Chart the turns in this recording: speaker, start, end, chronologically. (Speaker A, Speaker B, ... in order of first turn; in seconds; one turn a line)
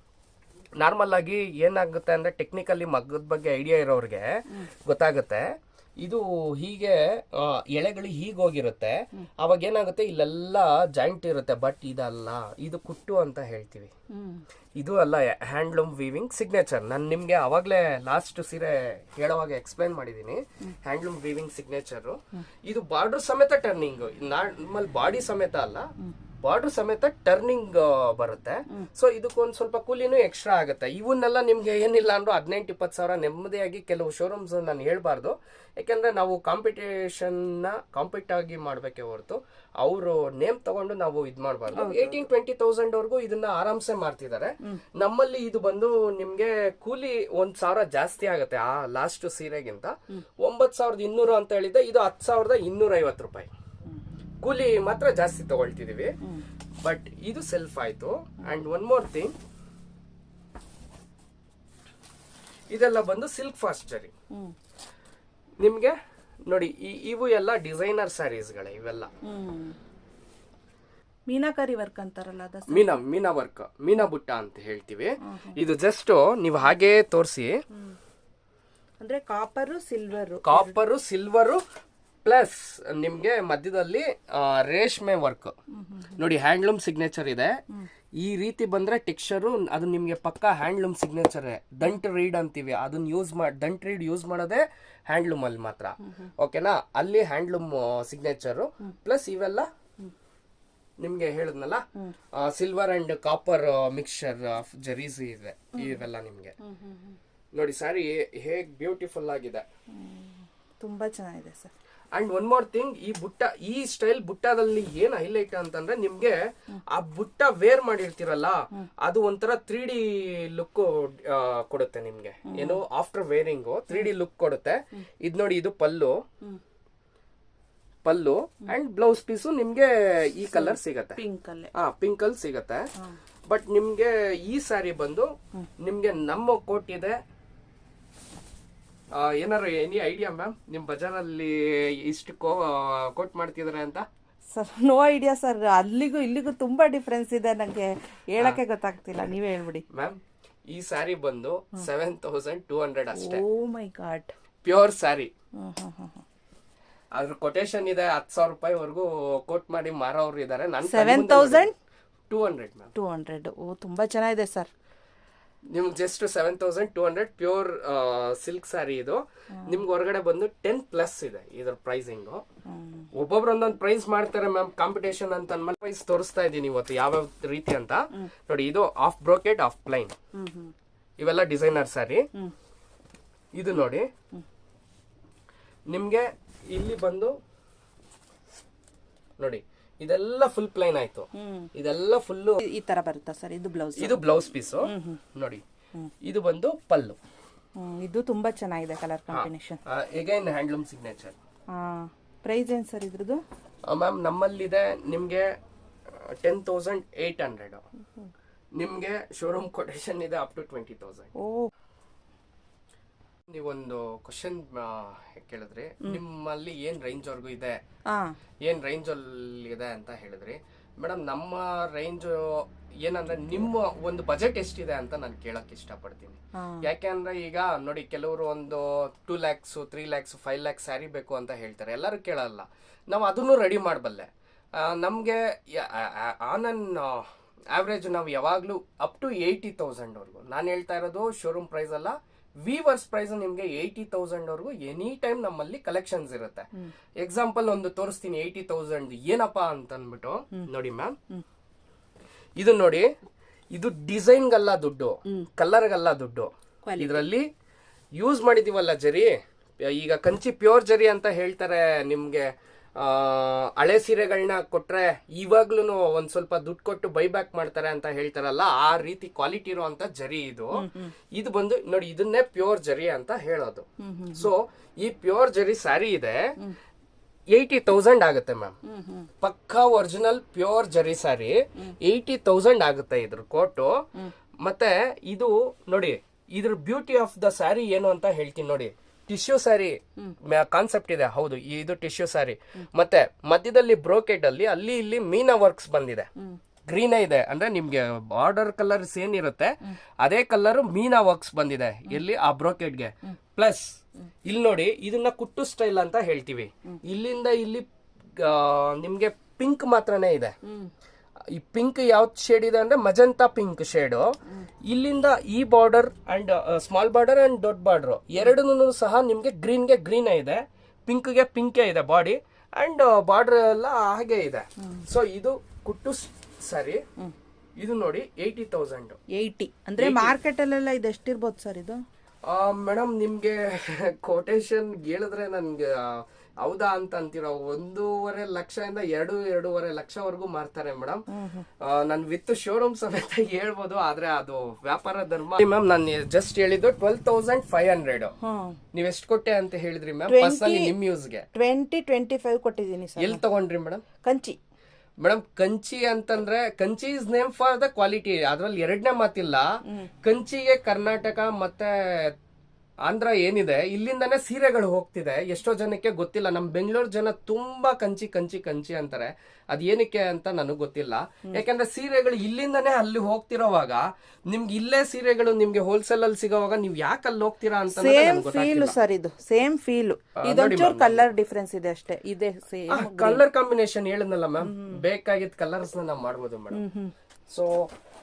Speaker A: 0.8-5.4
Speaker A: 6.0-13.9
Speaker A: 14.8-25.9
Speaker A: 26.4-53.5
Speaker B: 41.7-42.2
Speaker A: 54.4-56.1
Speaker A: 56.8-59.3
Speaker A: 62.7-64.1
Speaker A: 65.6-66.0
Speaker A: 66.5-69.1
Speaker B: 69.3-69.7
Speaker B: 71.3-73.0
Speaker A: 72.7-77.5
Speaker B: 79.0-80.8
Speaker A: 80.4-81.6
Speaker A: 82.2-85.5
Speaker A: 86.2-87.5
Speaker A: 88.2-99.7
Speaker A: 101.0-101.8
Speaker A: 102.3-106.5
Speaker B: 106.8-107.1
Speaker A: 107.5-109.6
Speaker B: 110.0-111.7
Speaker A: 112.1-116.4
Speaker A: 116.9-126.2
Speaker B: 122.5-122.8
Speaker A: 128.0-131.2
Speaker B: 130.5-131.7
Speaker A: 131.7-132.9
Speaker A: 133.5-137.1
Speaker A: 139.1-144.1
Speaker B: 144.5-149.8
Speaker A: 149.9-153.4
Speaker B: 153.1-154.3
Speaker A: 154.6-155.3
Speaker B: 155.6-156.2
Speaker A: 157.1-161.7
Speaker B: 160.8-161.7
Speaker A: 162.3-162.9
Speaker B: 162.9-164.7
Speaker A: 165.7-172.4
Speaker A: 173.1-180.1
Speaker B: 180.4-180.7
Speaker A: 181.2-182.2
Speaker A: 183.5-184.1
Speaker A: 185.9-187.3
Speaker A: 189.4-192.6
Speaker B: 191.4-191.7
Speaker B: 192.6-194.2
Speaker A: 193.9-195.6
Speaker B: 194.8-195.2
Speaker A: 196.2-197.2
Speaker B: 197.8-199.8
Speaker A: 199.3-201.3
Speaker B: 201.8-203.4
Speaker A: 203.9-205.5
Speaker A: 206.1-207.8
Speaker A: 208.7-211.3
Speaker B: 211.4-211.7
Speaker A: 213.5-217.8
Speaker A: 218.6-246.7
Speaker B: 226.6-226.8
Speaker A: 247.2-251.2
Speaker A: 252.6-253.1
Speaker A: 253.7-257.4
Speaker B: 256.9-257.2
Speaker A: 258.1-276.5
Speaker B: 270.8-271.1
Speaker B: 274.0-274.5
Speaker A: 277.5-278.8
Speaker B: 278.9-279.3
Speaker A: 279.4-284.0
Speaker A: 284.6-296.3
Speaker A: 296.9-303.9
Speaker A: 304.4-310.5
Speaker A: 311.5-314.3
Speaker A: 314.8-327.0
Speaker A: 327.8-329.2
Speaker B: 329.4-332.0
Speaker A: 330.0-330.3
Speaker A: 332.4-341.2
Speaker B: 341.3-341.6
Speaker A: 341.8-348.3
Speaker B: 348.4-348.7
Speaker A: 348.9-351.4
Speaker B: 350.3-350.9
Speaker B: 351.5-353.4
Speaker A: 353.2-354.0
Speaker B: 354.2-354.6
Speaker A: 355.2-359.7
Speaker A: 360.2-362.3
Speaker A: 363.1-378.9
Speaker B: 377.9-383.4
Speaker A: 380.4-381.3
Speaker A: 382.9-386.8
Speaker B: 384.6-385.0
Speaker B: 386.7-387.1
Speaker A: 387.5-387.9